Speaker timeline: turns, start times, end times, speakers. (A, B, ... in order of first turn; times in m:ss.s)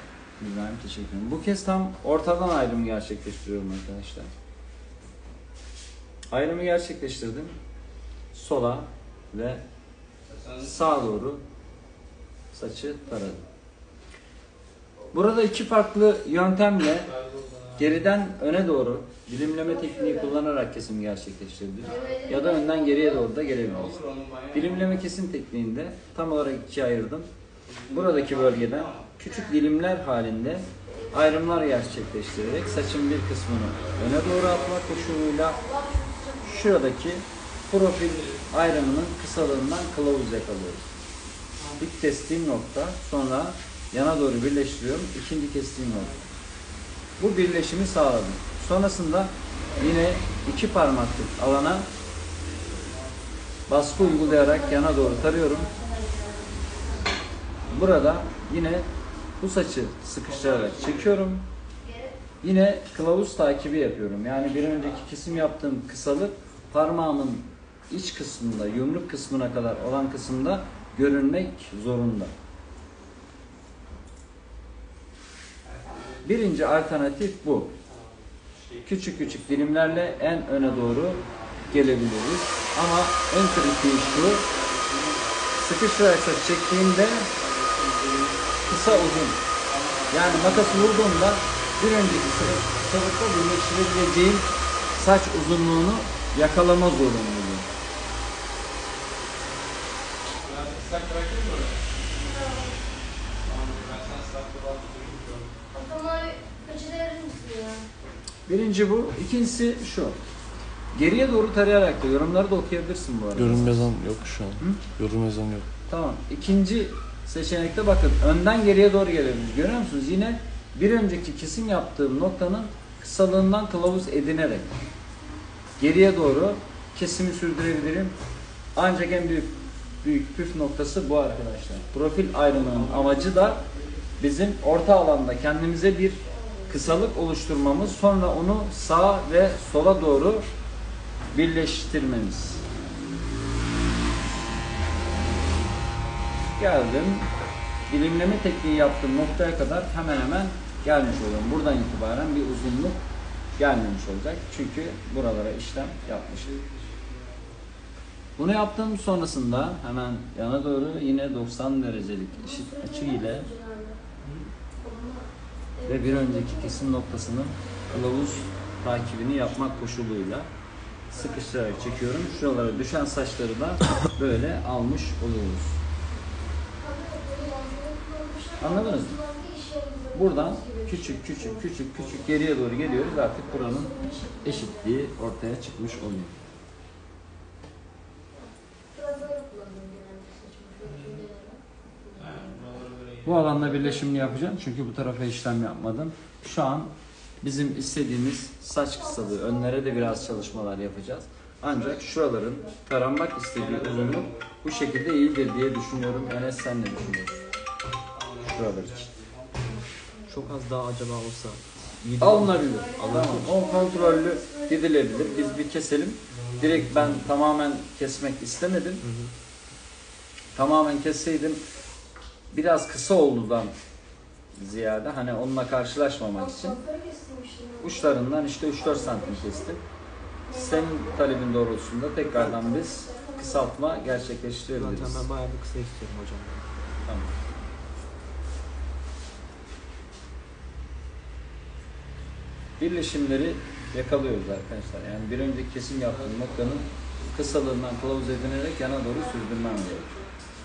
0:00.4-0:04.3 A
0:06.3-0:07.5 A
0:08.3-0:09.6 A
0:10.3-0:10.8 B
0:10.6-0:11.4 A
0:12.5-0:13.4 A
0:15.1-0:17.1 A
0:17.1-0:18.0 B
0:17.8-0:24.0 A
0:19.5-0:20.4 C
0:21.8-0:23.6 C
0:21.8-0:22.2 B
0:23.6-0:25.1 B
0:24.5-0:27.3 A
0:27.7-0:29.1 B
0:27.9-0:35.6 A
0:29.3-0:29.6 C
0:30.9-0:33.0 C
0:33.7-0:35.3 B
0:35.4-0:36.8 C
0:36.4-0:40.9 A
0:38.0-0:38.9 B
0:41.6-0:41.8 B
0:41.8-0:46.2 A
0:47.2-0:51.9 A
0:52.4-0:53.2 B
0:53.7-0:55.7 A
0:54.0-0:57.3 C
0:57.5-0:58.0 B
0:57.7-0:58.9 A
0:59.4-1:01.5 A
1:00.2-1:01.2 B
1:01.8-1:02.2 C
1:02.4-1:12.3 A
1:15.6-1:16.5 B
1:16.2-1:17.7 A
1:17.9-1:22.1 B
1:18.8-1:24.5 A
1:23.5-1:25.6 B
1:25.6-1:27.3 A
1:27.2-1:31.4 B
1:28.7-1:29.4 A
1:30.1-1:37.7 A
1:31.9-1:33.1 B
1:40.4-1:42.0 B
1:42.2-1:42.8 C
1:43.4-1:45.6 B
1:45.7-1:47.9 C
1:48.5-1:50.2 A
1:50.9-1:53.9 A
1:53.4-1:55.7 D
1:55.9-2:04.7 A
2:05.8-2:08.2 A
2:08.8-2:13.6 A
2:12.3-2:14.1 B
2:14.2-2:20.5 A
2:16.2-2:17.0 C
2:21.3-2:22.6 A
2:26.6-2:27.3 A
2:27.9-2:33.0 A
2:33.6-2:36.5 A
2:36.0-2:37.6 B
2:38.4-2:43.5 A
2:42.4-2:44.0 C
2:44.2-2:44.5 B
2:44.8-2:47.0 C
2:45.9-2:50.5 A
2:47.6-2:48.4 C
2:51.1-2:55.8 A
2:51.2-2:52.8 B
2:56.8-3:01.7 C
2:58.6-2:59.2 A
3:00.1-3:06.4 A
3:02.0-3:02.4 B
3:02.7-3:05.0 C
3:08.4-3:12.5 C
3:10.8-3:11.2 B
3:12.2-3:13.9 B
3:13.2-3:27.4 A
3:13.7-3:14.4 C
3:18.9-3:20.9 C
3:21.7-3:22.8 C
3:23.5-3:24.5 B
3:24.7-3:27.6 C
3:28.1-3:29.7 B
3:28.4-3:29.1 A
3:29.6-3:30.4 C
3:30.3-3:33.6 E
3:32.2-3:39.1 A
3:32.6-3:35.7 C
3:36.3-3:37.2 B
3:39.0-3:39.3 E
3:40.6-3:41.6 A
3:42.5-3:43.8 A
3:44.6-3:46.8 A
3:46.3-3:49.8 C
3:47.8-3:49.8 A
3:50.5-3:51.4 C
3:50.5-3:55.2 A
3:52.4-3:54.1 C
3:54.7-3:56.7 E
3:57.1-3:57.3 A
4:02.8-4:10.2 A
4:06.1-4:06.9 B